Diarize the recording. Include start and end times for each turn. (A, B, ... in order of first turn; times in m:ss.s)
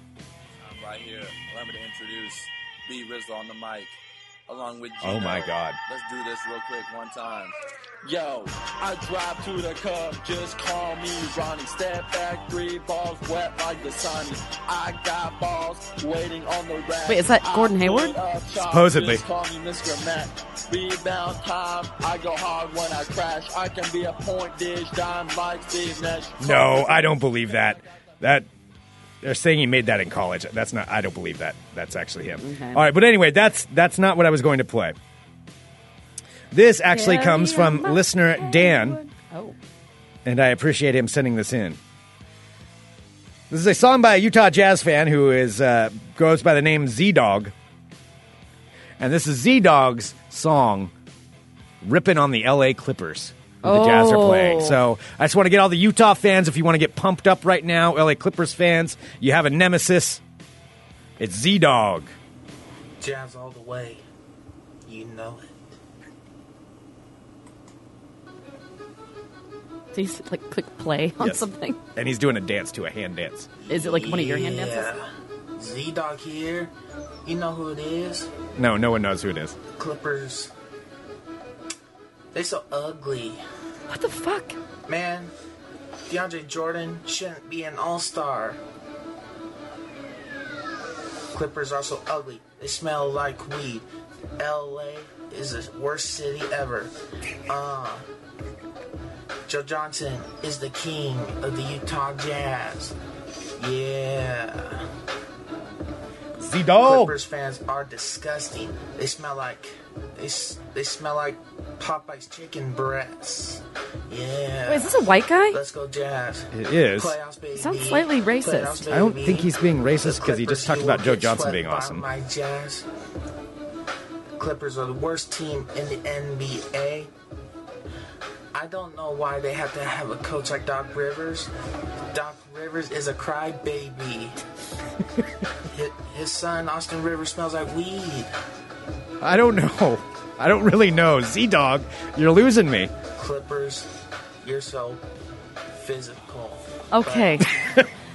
0:00.6-0:27.7 A
0:05.0-0:05.8 B
0:17.1-0:18.2 C
0:18.6-0:19.2 B
0:26.4-0:28.5 B
0:29.2-0:35.0 B
0:32.4-0:32.8 C
0:36.5-0:39.0 B
0:36.9-0:39.6 C
0:40.2-0:41.8 B
0:43.5-0:47.5 B
0:49.0-0:50.9 B
0:51.8-1:00.2 B
0:53.6-0:54.8 C
1:01.2-1:02.1 B
1:03.0-1:04.0 D
1:04.8-1:05.5 D
1:09.9-1:11.8 C
1:11.9-1:13.5 B
1:13.6-1:15.0 D
1:13.7-1:14.9 C
1:15.6-1:16.7 D
1:17.2-1:18.3 D
1:18.6-1:19.6 B
1:19.8-1:20.5 D
1:22.3-1:23.4 D
1:23.9-1:24.6 C
1:24.9-1:25.3 D
1:26.1-1:28.6 D
1:31.3-1:33.8 D
1:34.4-1:36.9 D
1:37.5-1:38.0 D
1:39.5-1:43.0 D
1:43.6-1:44.9 D
1:46.4-1:47.1 B
1:46.8-2:02.9 D
1:54.7-1:55.6 C
1:56.5-1:57.2 B
1:57.6-1:58.8 C
1:58.9-2:02.0 B
2:04.4-2:07.1 D
2:08.5-2:11.5 D
2:12.1-2:14.4 D
2:15.7-2:18.3 D
2:19.2-2:22.9 B
2:23.1-2:23.9 D
2:24.4-2:25.0 D
2:25.7-2:27.4 D
2:26.9-2:27.5 C